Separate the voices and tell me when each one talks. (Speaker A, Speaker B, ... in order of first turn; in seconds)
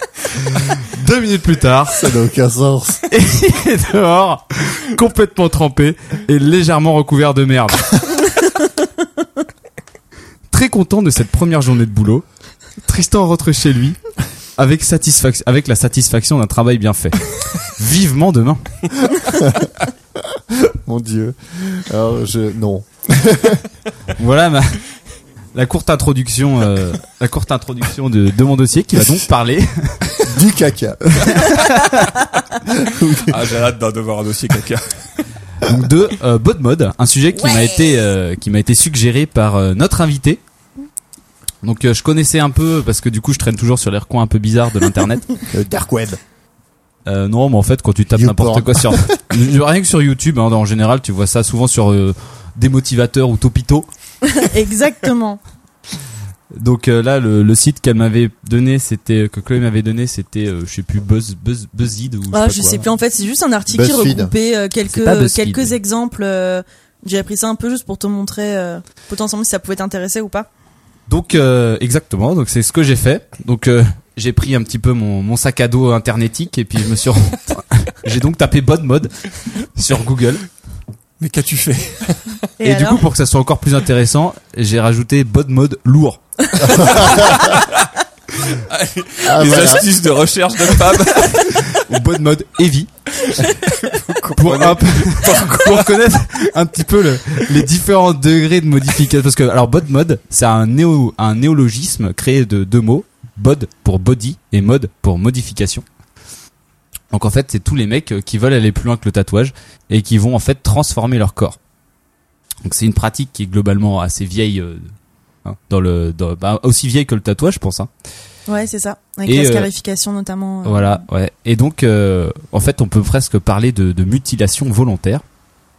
Speaker A: 0.5-2.1, 3.1-7.9, 10.5-12.2, 12.8-14.0, 14.6-18.6, 24.1-24.8, 25.5-30.2, 31.3-32.0, 35.6-40.4, 41.6-45.3, 47.0-53.9, 56.5-62.9, 64.9-65.8, 71.1-80.5, 82.6-86.8, 91.7-92.9, 94.4-105.8, 107.1-111.6, 112.6-114.9, 115.4-117.9, 119.2-119.7, 120.6-125.2
Speaker B: 1.9-3.0, 19.2-19.7, 20.3-23.6, 30.2-31.4, 32.7-33.4, 45.5-46.2, 48.1-49.2, 63.7-64.3, 86.6-87.5, 89.2-89.9
Speaker C: 33.2-35.2, 81.2-82.4, 86.8-87.9, 88.4-91.7, 93.2-95.9
Speaker D: 54.3-55.4, 62.3-70.5, 82.6-83.0, 118.5-121.0